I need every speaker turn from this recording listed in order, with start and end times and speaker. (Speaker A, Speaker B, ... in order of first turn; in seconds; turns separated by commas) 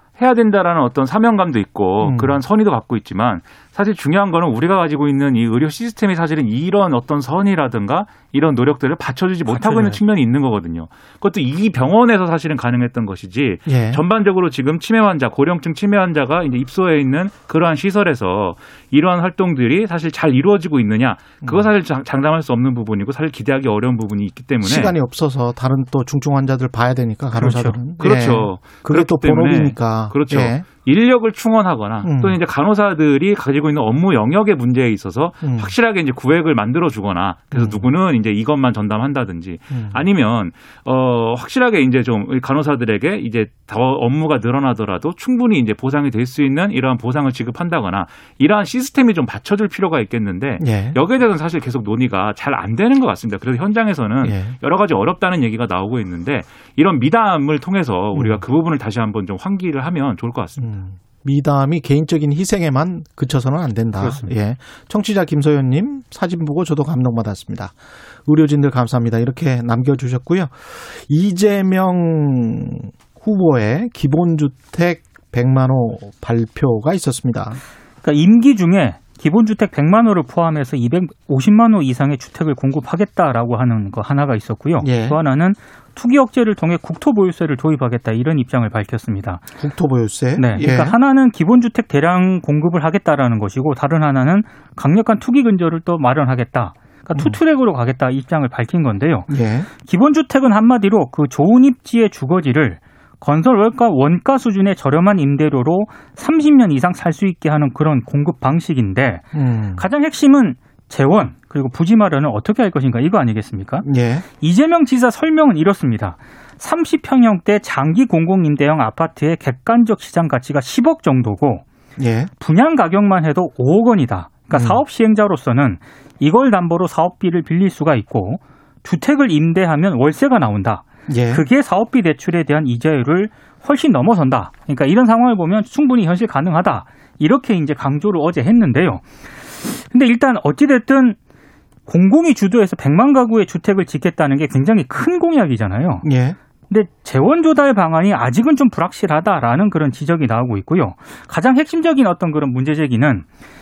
Speaker A: 0.2-24.9, Speaker B: 2.0-2.4, Speaker C: 9.5-10.0, Speaker B: 13.7-14.0, Speaker B: 21.4-21.7, Speaker B: 24.6-30.6, Speaker C: 27.4-27.8, Speaker A: 28.0-60.7, Speaker B: 32.0-32.4, Speaker B: 35.4-35.7, Speaker B: 37.5-37.9, Speaker B: 39.7-40.0, Speaker B: 50.6-51.0, Speaker B: 54.2-54.5, Speaker B: 58.1-58.4, Speaker B: 60.6-77.6, Speaker C: 78.0-89.4, Speaker B: 84.8-85.2, Speaker B: 89.6-91.0, Speaker C: 90.4-99.3, Speaker B: 99.3-99.7, Speaker C: 99.8-113.9, Speaker B: 109.3-109.9, Speaker B: 113.8-114.2, Speaker C: 114.4-121.6, Speaker B: 122.0-122.3, Speaker C: 122.4-141.2, Speaker B: 124.5-124.8, Speaker B: 131.1-131.4, Speaker C: 141.9-146.1, Speaker B: 146.0-146.4, Speaker C: 146.7-153.3